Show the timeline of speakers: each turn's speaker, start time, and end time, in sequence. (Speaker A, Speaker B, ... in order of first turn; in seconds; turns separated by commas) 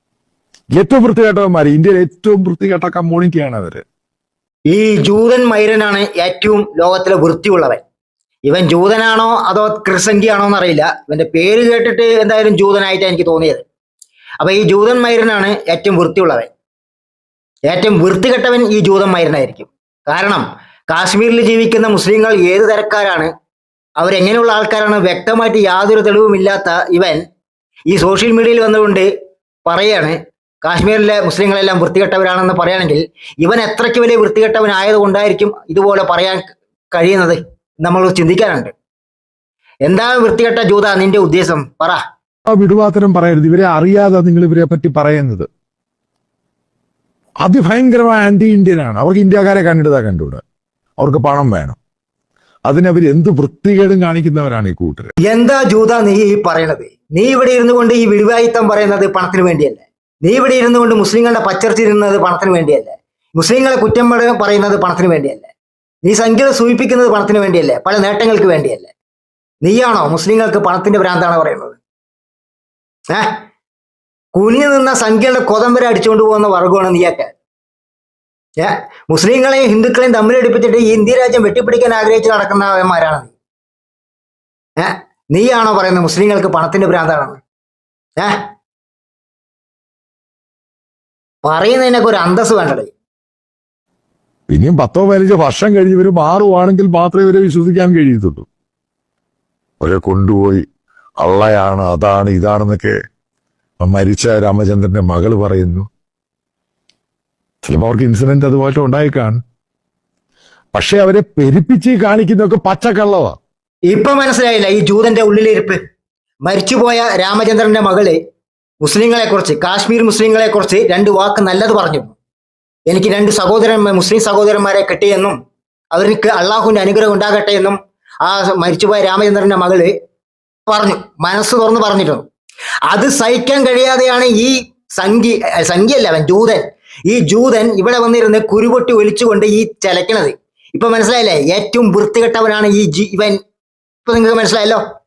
Speaker A: 0.7-3.8, Speaker B: 4.7-7.8, Speaker B: 8.5-13.6, Speaker B: 14.4-16.5, Speaker B: 17.7-23.3, Speaker B: 24.0-27.2, Speaker B: 27.9-29.1, Speaker B: 29.6-38.7, Speaker B: 39.8-42.0, Speaker A: 42.5-45.5, Speaker A: 47.4-50.4, Speaker A: 51.0-51.8, Speaker A: 52.7-55.1, Speaker B: 55.2-65.5, Speaker B: 66.0-68.9, Speaker B: 69.6-71.8, Speaker B: 73.1-73.4, Speaker B: 74.3-77.3, Speaker B: 78.6-83.3, Speaker B: 84.8-87.4, Speaker B: 91.4-92.9, Speaker A: 94.5-98.5, Speaker A: 99.8-100.7, Speaker A: 101.2-103.0, Speaker A: 103.8-105.9, Speaker A: 107.6-109.4, Speaker A: 110.7-113.4, Speaker B: 113.9-115.8, Speaker B: 116.4-118.2, Speaker B: 118.8-122.1, Speaker B: 122.9-125.4, Speaker B: 125.9-129.9, Speaker B: 130.7-132.2, Speaker B: 132.9-143.4, Speaker B: 144.1-144.8